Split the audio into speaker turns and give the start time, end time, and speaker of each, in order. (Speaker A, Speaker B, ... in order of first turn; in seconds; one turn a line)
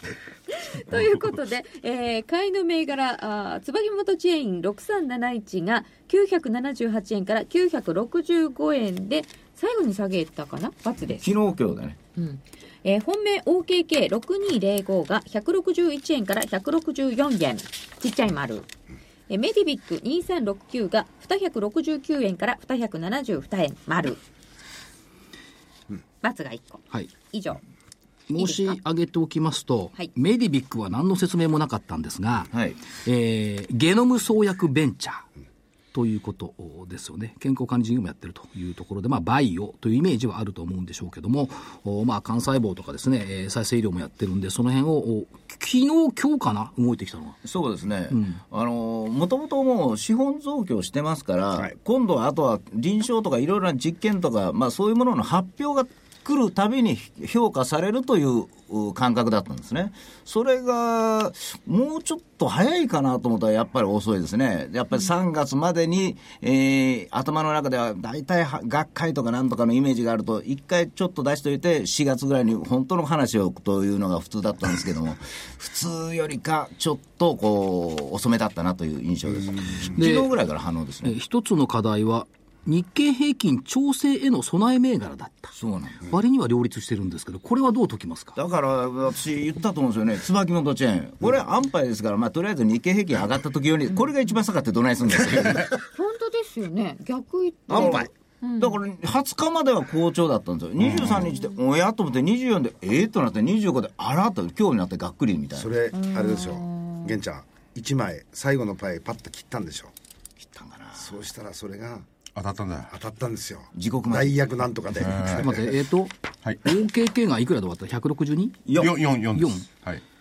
Speaker A: 0.5-11.3
Speaker B: 11.2-12.0
Speaker A: 12.2-18.7
Speaker A: 19.3-24.2
Speaker A: 26.2-27.6
Speaker C: 28.3-32.5
Speaker A: 28.4-28.8
Speaker B: 32.5-32.8
Speaker C: 33.0-35.3
Speaker C: 35.9-47.4
Speaker B: 47.5-81.2
Speaker C: 48.1-48.4
Speaker C: 80.0-80.3
Speaker C: 81.0-88.4
Speaker B: 85.6-86.0
Speaker B: 88.4-95.7
Speaker A: 95.9-98.8
Speaker D: 97.7-98.1
Speaker B: 97.7-98.1
Speaker B: 98.6-105.7
Speaker E: 100.9-101.2
Speaker D: 105.5-109.9
Speaker A: 105.9-107.2
Speaker B: 110.4-111.1
Speaker D: 111.0-112.1
Speaker E: 112.3-112.9
Speaker D: 112.9-115.6
Speaker B: 113.7-114.5
Speaker E: 115.1-115.4
Speaker C: 115.4-118.6
Speaker B: 118.7-119.0
Speaker E: 118.8-120.0
Speaker C: 119.3-119.7